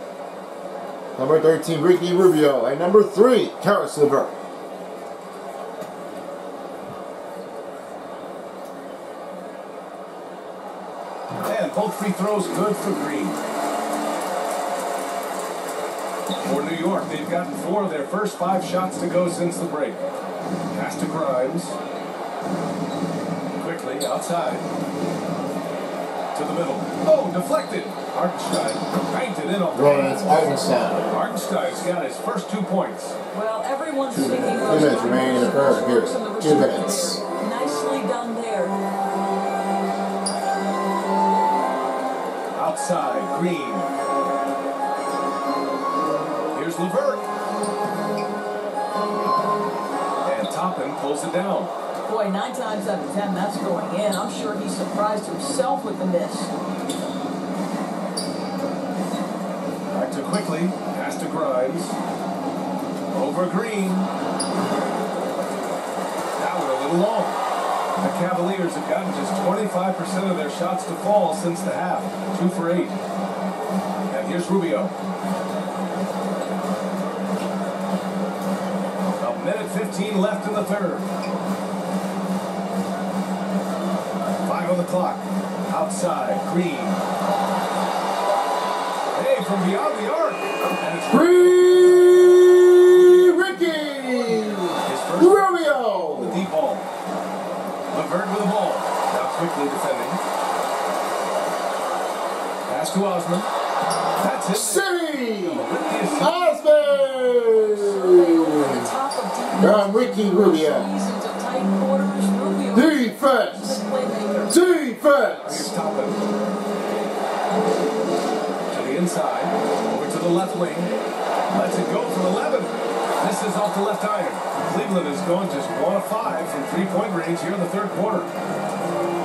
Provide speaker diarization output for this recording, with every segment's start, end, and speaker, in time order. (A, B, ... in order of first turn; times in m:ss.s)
0:01.2-0:04.3 A
0:11.4-0:13.4 B
0:16.4-0:20.0 B
0:20.7-0:21.8 B
0:23.6-0:24.6 B
0:26.3-0:33.2 B
0:29.7-0:31.1 A
0:33.3-0:38.8 C
0:34.6-0:37.2 A
0:42.5-0:43.9 B
0:46.5-0:47.3 B
0:50.2-0:51.7 B
0:52.1-0:56.5 C
0:59.9-1:02.0 B
1:03.1-1:04.1 B
1:06.4-1:07.4 B
1:08.0-1:13.0 B
1:14.1-1:14.9 B
1:19.2-1:21.1 B
1:24.4-1:27.0 B
1:29.1-1:31.5 B
1:31.1-1:36.5 A
1:34.8-1:36.9 B
1:37.9-1:40.2 B
1:42.7-1:43.5 B
1:44.2-1:46.4 B
1:44.5-1:48.9 A
1:47.8-1:54.6 C
1:49.6-1:50.9 A
1:52.7-1:53.8 A
1:54.5-1:55.7 A
1:55.4-1:56.2 B
1:58.7-2:00.9 B
2:01.5-2:08.3 B